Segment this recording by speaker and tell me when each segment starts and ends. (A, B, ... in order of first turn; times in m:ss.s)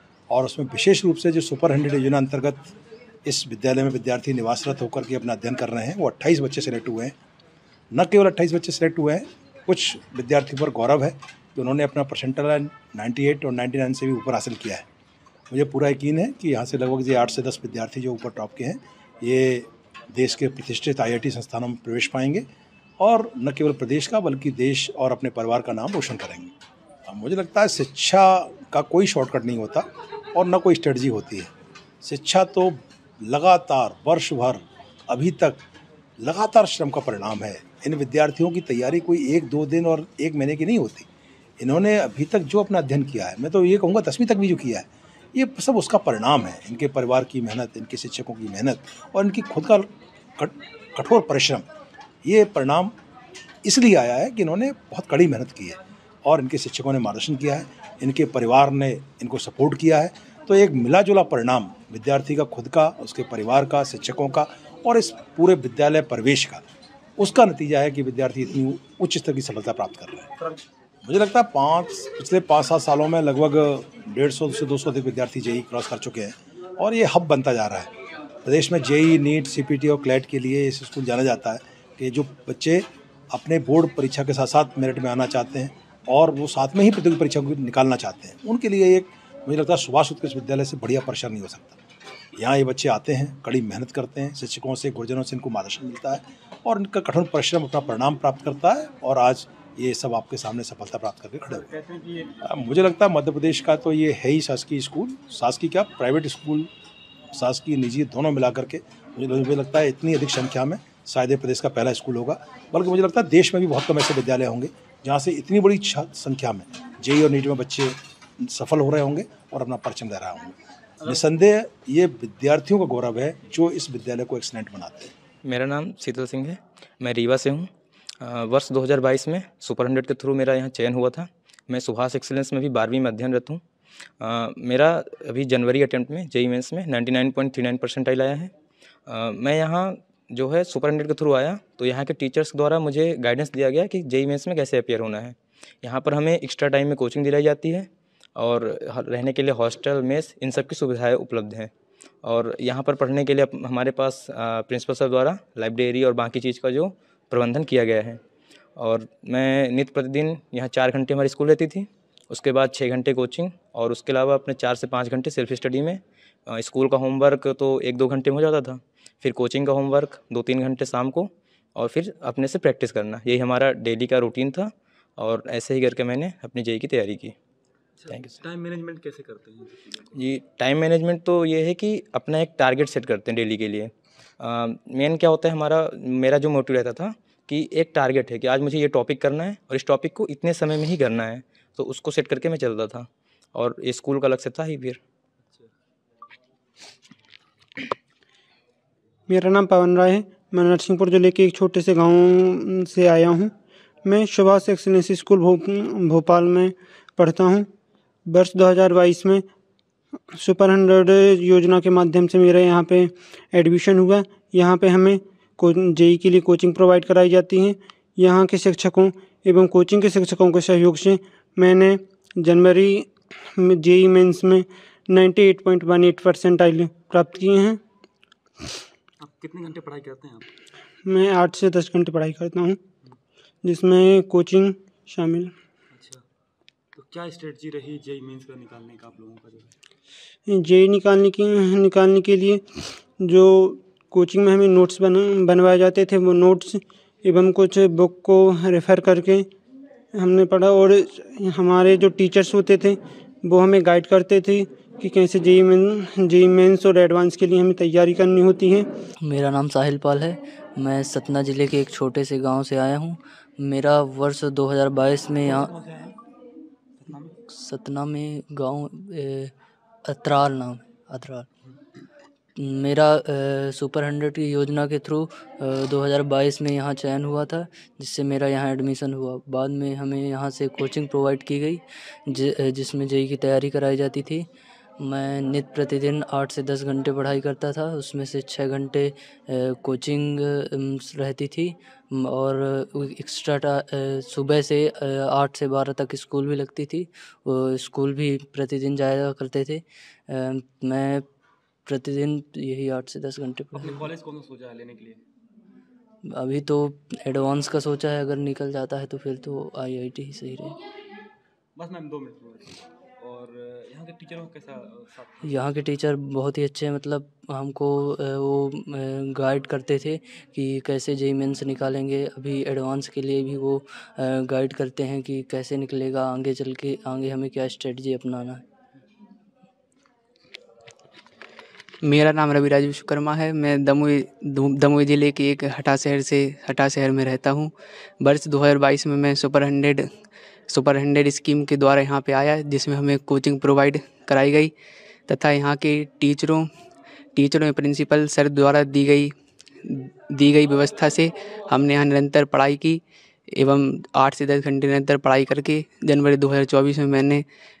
0:00.3-0:07.1 A
0:07.9-0:14.8 A
0:15.5-0:22.4 A
0:23.0-0:26.5 A
0:27.1-0:31.5 A
0:32.0-0:35.6 A
0:36.2-0:41.1 A
0:41.6-0:51.7 A
0:52.2-0:52.9 A
0:53.6-1:06.6 A
1:07.2-1:10.3 A
1:11.0-1:17.9 A
1:18.4-1:31.8 A
1:32.4-1:41.7 A
1:41.5-1:42.3 B
1:42.4-1:46.7 A
1:47.3-2:05.1 A
2:05.4-2:07.7 C
2:08.2-2:13.6 C
2:14.2-2:18.5 C
2:19.1-2:31.7 C
2:32.2-2:38.2 C
2:38.8-2:57.4 C
2:58.0-3:00.3 B
2:58.1-2:58.4 C
3:00.1-3:15.0 C
3:15.4-3:15.7 B
3:19.3-3:23.5 D
3:24.0-3:27.7 D
3:28.3-3:29.4 D
3:30.3-3:47.8 D
3:49.2-3:50.5 B
3:51.0-3:52.8 D
3:53.6-3:55.5 D
3:55.9-3:56.2 B
3:56.9-3:59.7 B
4:00.5-4:09.5 D
4:10.1-4:18.9 D
4:19.2-4:25.7 E
4:25.4-4:26.2 B
4:27.0-4:27.4 B
4:27.5-4:29.5 E
4:30.0-4:31.5 E
4:32.6-4:44.5 E
4:45.0-5:01.2 E
5:01.9-5:04.1 E
5:03.7-5:05.2 B
5:06.3-5:10.8 E
5:11.7-5:15.7 B
5:15.4-5:28.6 E
5:32.0-5:44.7 F
5:45.2-5:46.7 F
5:47.3-5:57.4 F